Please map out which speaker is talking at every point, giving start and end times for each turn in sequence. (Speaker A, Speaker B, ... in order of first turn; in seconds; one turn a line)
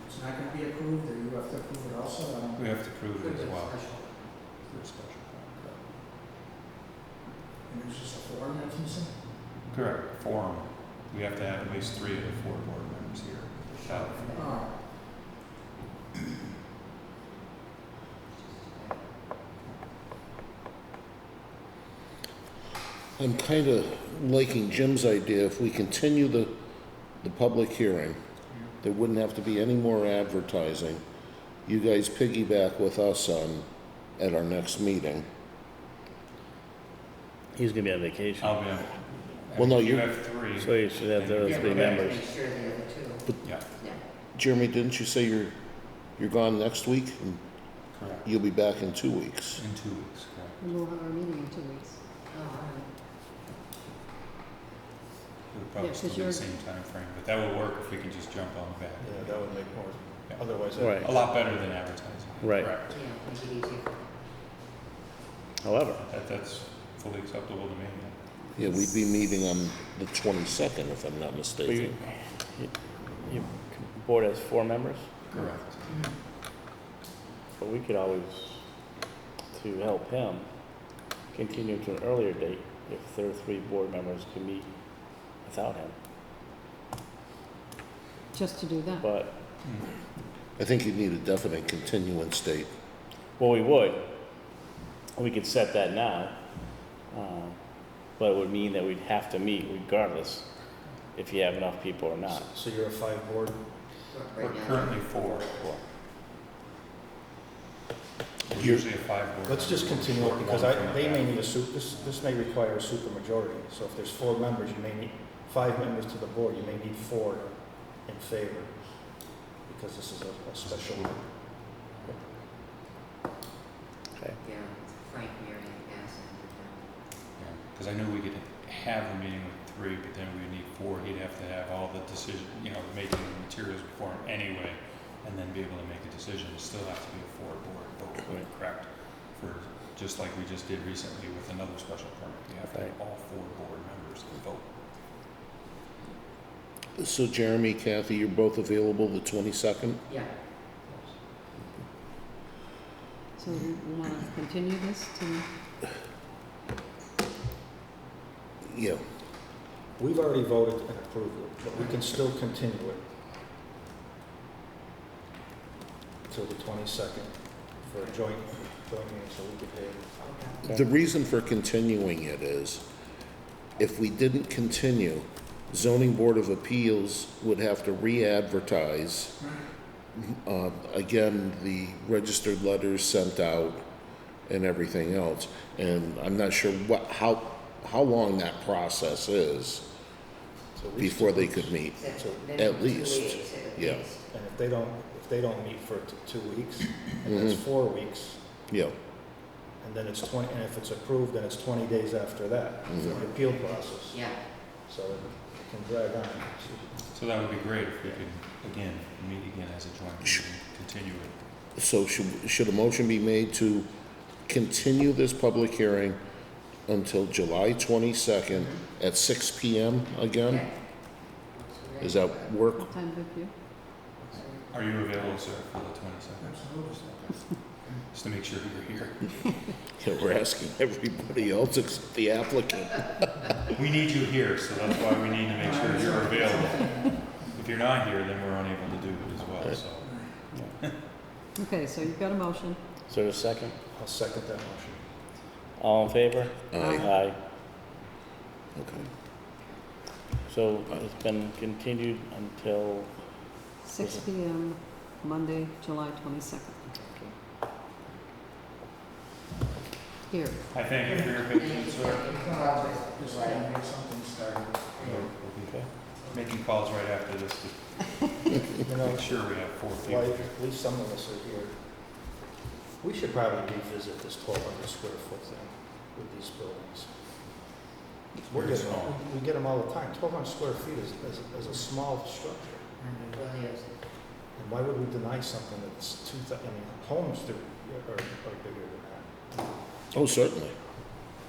Speaker A: 0.1-2.6
Speaker B: 2.6-3.8
Speaker C: 3.0-4.3
Speaker B: 4.6-5.8
Speaker A: 7.7-9.2
Speaker B: 9.7-14.4
Speaker C: 13.8-14.5
Speaker A: 14.4-14.7
Speaker C: 18.3-19.1
Speaker D: 23.2-26.5
Speaker D: 27.2-28.2
Speaker D: 28.8-31.0
Speaker D: 31.7-33.6
Speaker D: 34.2-35.2
Speaker E: 37.5-38.6
Speaker B: 38.4-42.1
Speaker D: 39.5-40.1
Speaker E: 40.6-42.2
Speaker C: 41.4-43.3
Speaker D: 44.4-45.5
Speaker D: 46.2-47.4
Speaker B: 47.9-48.3
Speaker D: 48.2-49.6
Speaker B: 49.6-50.6
Speaker F: 50.6-52.0
Speaker C: 52.3-52.9
Speaker B: 55.5-59.5
Speaker F: 55.8-56.5
Speaker G: 59.0-61.5
Speaker E: 60.8-61.1
Speaker B: 61.0-63.0
Speaker E: 62.4-62.7
Speaker C: 62.9-64.1
Speaker E: 65.6-66.0
Speaker B: 66.0-68.2
Speaker D: 68.6-72.0
Speaker E: 71.7-72.7
Speaker E: 73.2-75.1
Speaker B: 75.3-76.0
Speaker E: 77.6-78.6
Speaker E: 79.5-80.5
Speaker E: 81.3-84.7
Speaker E: 85.4-86.0
Speaker F: 88.3-89.1
Speaker E: 89.0-89.3
Speaker B: 89.6-89.9
Speaker D: 90.6-92.7
Speaker E: 93.4-94.1
Speaker E: 95.2-96.4
Speaker E: 97.1-97.6
Speaker E: 98.2-100.5
Speaker E: 101.2-102.5
Speaker G: 102.4-103.6
Speaker C: 104.1-105.3
Speaker B: 104.4-105.5
Speaker E: 105.3-105.8
Speaker B: 108.5-112.1
Speaker D: 108.5-108.8
Speaker G: 109.4-118.7
Speaker G: 119.7-121.2
Speaker B: 120.6-121.2
Speaker C: 124.4-126.8
Speaker B: 127.4-144.7
Speaker D: 147.0-150.0
Speaker F: 153.4-155.5
Speaker D: 158.7-159.0
Speaker G: 160.0-163.0
Speaker C: 161.8-162.0
Speaker G: 166.3-167.3
Speaker G: 167.8-170.3
Speaker C: 167.8-168.2
Speaker C: 170.2-170.7
Speaker D: 170.7-172.8
Speaker D: 173.8-179.4
Speaker D: 180.2-183.8
Speaker D: 184.5-189.9
Speaker G: 190.8-192.6
Speaker D: 191.0-192.0
Speaker C: 191.9-194.2
Speaker D: 192.5-194.1
Speaker G: 194.3-198.4
Speaker D: 198.7-198.9
Speaker G: 199.8-204.2
Speaker D: 202.9-203.2
Speaker C: 203.3-204.4
Speaker G: 204.9-207.0
Speaker B: 207.1-211.3
Speaker D: 211.8-213.9
Speaker D: 214.5-216.2
Speaker D: 216.9-220.7
Speaker C: 220.4-222.6
Speaker D: 222.0-222.9
Speaker F: 222.7-223.5
Speaker C: 224.2-225.1
Speaker B: 224.7-226.7
Speaker A: 226.4-227.0
Speaker B: 228.1-229.4
Speaker D: 230.0-233.3
Speaker B: 233.7-240.1
Speaker A: 235.7-237.1
Speaker A: 240.0-240.3
Speaker F: 241.6-242.8
Speaker E: 243.1-243.8
Speaker G: 243.9-245.0
Speaker E: 245.8-247.4
Speaker D: 246.7-247.1
Speaker F: 246.8-247.1
Speaker D: 248.8-249.1
Speaker E: 250.5-253.1
Speaker F: 253.8-256.8
Speaker E: 254.0-254.2
Speaker C: 256.9-257.3
Speaker F: 260.3-260.6
Speaker B: 260.7-262.3
Speaker C: 261.4-263.9
Speaker A: 262.4-264.7
Speaker C: 264.9-265.3
Speaker B: 265.0-270.5
Speaker G: 268.8-271.7
Speaker G: 273.0-277.1
Speaker B: 278.4-279.2
Speaker G: 278.5-282.9
Speaker C: 283.0-283.9
Speaker G: 284.6-289.7
Speaker D: 290.1-290.7